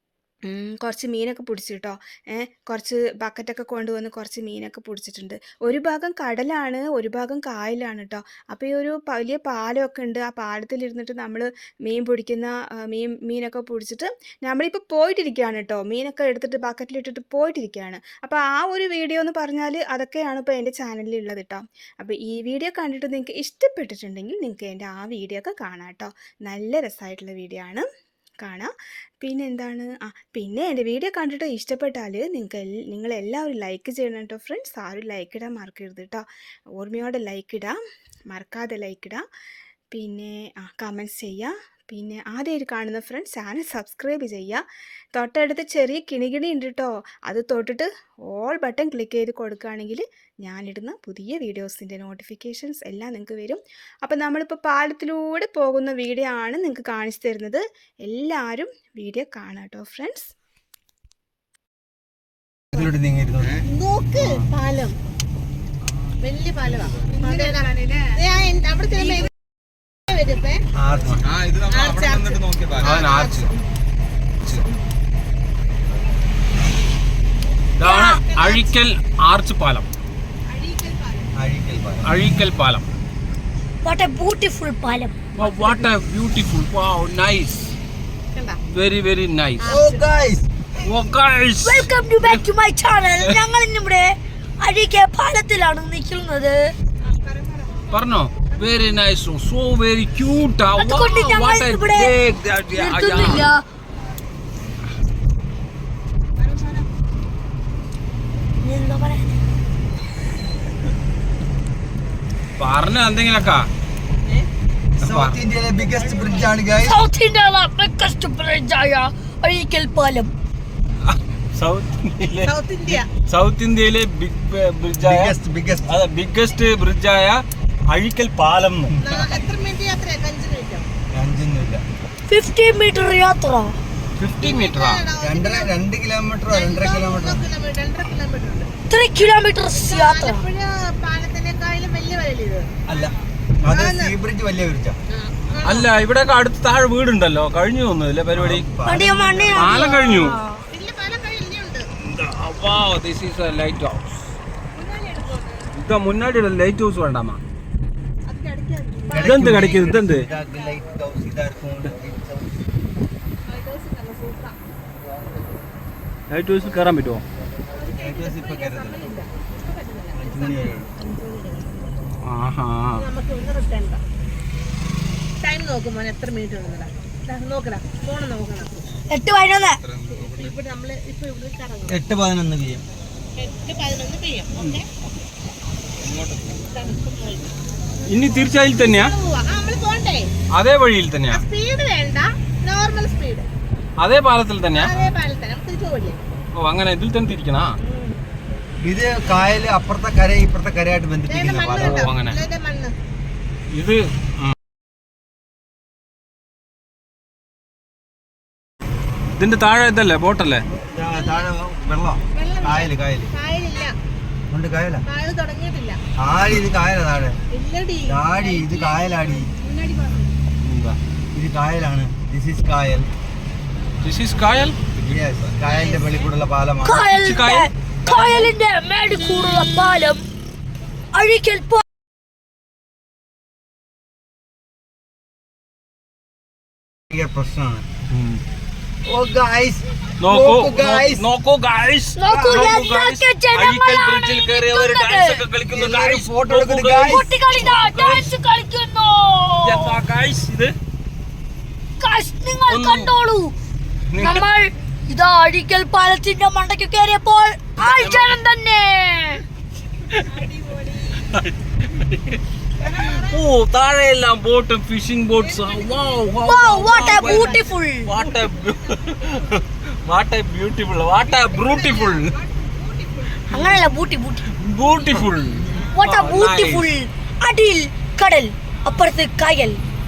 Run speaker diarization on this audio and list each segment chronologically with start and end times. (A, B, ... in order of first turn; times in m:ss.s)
0:00.5-0:27.8 A
0:28.4-0:39.2 A
0:39.9-1:00.3 A
1:02.7-1:03.6 B
1:03.6-1:05.0 C
1:06.2-1:09.3 C
1:10.1-1:10.6 C
1:10.7-1:11.2 B
1:11.2-1:13.5 D
1:11.6-1:13.6 C
1:17.8-1:19.8 D
1:17.8-1:18.7 C
1:20.5-1:21.3 C
1:21.3-1:22.1 B
1:22.0-1:22.8 D
1:23.8-1:25.2 E
1:25.3-1:27.7 D
1:25.4-1:25.8 C
1:28.3-1:28.6 C
1:28.7-1:29.7 D
1:29.6-1:30.1 C
1:29.7-1:30.4 B
1:30.8-1:32.4 D
1:31.6-1:36.7 E
1:37.0-1:38.9 C
1:37.9-1:43.5 D
1:40.8-1:42.1 E
1:42.7-1:43.6 E
1:46.4-1:46.8 C
1:48.6-1:49.4 E
1:52.6-1:53.7 D
1:54.2-1:54.5 C
1:55.0-1:55.4 D
1:55.0-1:57.0 B
1:55.8-1:56.5 C
1:56.8-2:00.3 E
2:01.1-2:05.3 D
2:02.4-2:03.1 C
2:05.0-2:05.9 B
2:05.9-2:09.0 D
2:09.0-2:10.8 C
2:11.1-2:11.8 B
2:12.3-2:13.8 E
2:14.2-2:15.0 D
2:14.4-2:15.8 C
2:15.2-2:17.4 B
2:16.5-2:18.7 C
2:18.9-2:20.4 E
2:19.7-2:23.1 C
2:22.8-2:25.0 B
2:23.7-2:24.1 C
2:25.1-2:26.0 C
2:25.6-2:28.7 D
2:28.3-2:29.8 B
2:28.8-2:30.6 E
2:29.5-2:30.4 D
2:30.7-2:31.9 C
2:32.0-2:34.3 D
2:34.7-2:35.7 C
2:35.7-2:37.4 D
2:38.2-2:40.6 C
2:39.1-2:42.6 B
2:39.2-2:40.3 D
2:43.4-2:44.6 C
2:46.3-2:47.2 D
2:47.7-2:51.8 C
2:47.9-2:49.1 B
2:50.1-2:50.9 B
2:52.2-2:53.0 D
2:53.0-2:54.0 C
2:55.4-2:58.9 C
2:59.1-2:59.8 E
2:59.6-3:00.5 D
3:00.1-3:02.0 C
3:01.9-3:02.8 B
3:03.4-3:04.9 C
3:06.0-3:06.7 D
3:06.7-3:10.3 C
3:08.1-3:09.2 D
3:10.5-3:11.4 D
3:11.3-3:13.5 C
3:14.0-3:14.9 D
3:14.7-3:16.2 C
3:16.6-3:17.7 D
3:17.8-3:18.2 C
3:18.8-3:22.1 B
3:21.3-3:23.0 C
3:21.8-3:22.4 D
3:23.7-3:24.5 D
3:29.4-3:30.7 D
3:30.8-3:33.3 B
3:31.0-3:31.5 C
3:32.3-3:34.0 C
3:34.5-3:35.0 B
3:35.0-3:36.0 C
3:36.2-3:37.4 B
3:37.5-3:40.3 C
3:38.0-3:39.5 B
3:40.6-3:41.0 D
3:41.3-3:43.1 B
3:44.0-3:44.8 D
3:45.0-3:47.0 B
3:45.7-3:46.3 C
3:46.8-3:50.2 E
3:47.1-3:48.5 D
3:51.1-3:51.8 E
3:57.1-3:57.8 B
3:58.1-3:58.4 D
3:59.0-4:01.3 B
4:00.2-4:08.3 D
4:02.2-4:05.4 E
4:02.3-4:02.7 B
4:05.7-4:07.3 B
4:07.0-4:10.0 E
4:09.6-4:10.7 D
4:12.0-4:13.5 E
4:12.6-4:13.1 D
4:14.1-4:14.5 D
4:14.2-4:19.4 E
4:17.8-4:18.4 D
4:20.3-4:21.3 C
4:21.2-4:22.4 D
4:22.8-4:23.5 C
4:23.0-4:32.3 D
4:25.4-4:28.2 C
4:26.4-4:28.1 E
4:31.5-4:33.8 C
4:33.5-4:34.5 E
4:34.5-4:36.9 D
4:35.6-4:36.1 C
4:35.9-4:39.8 E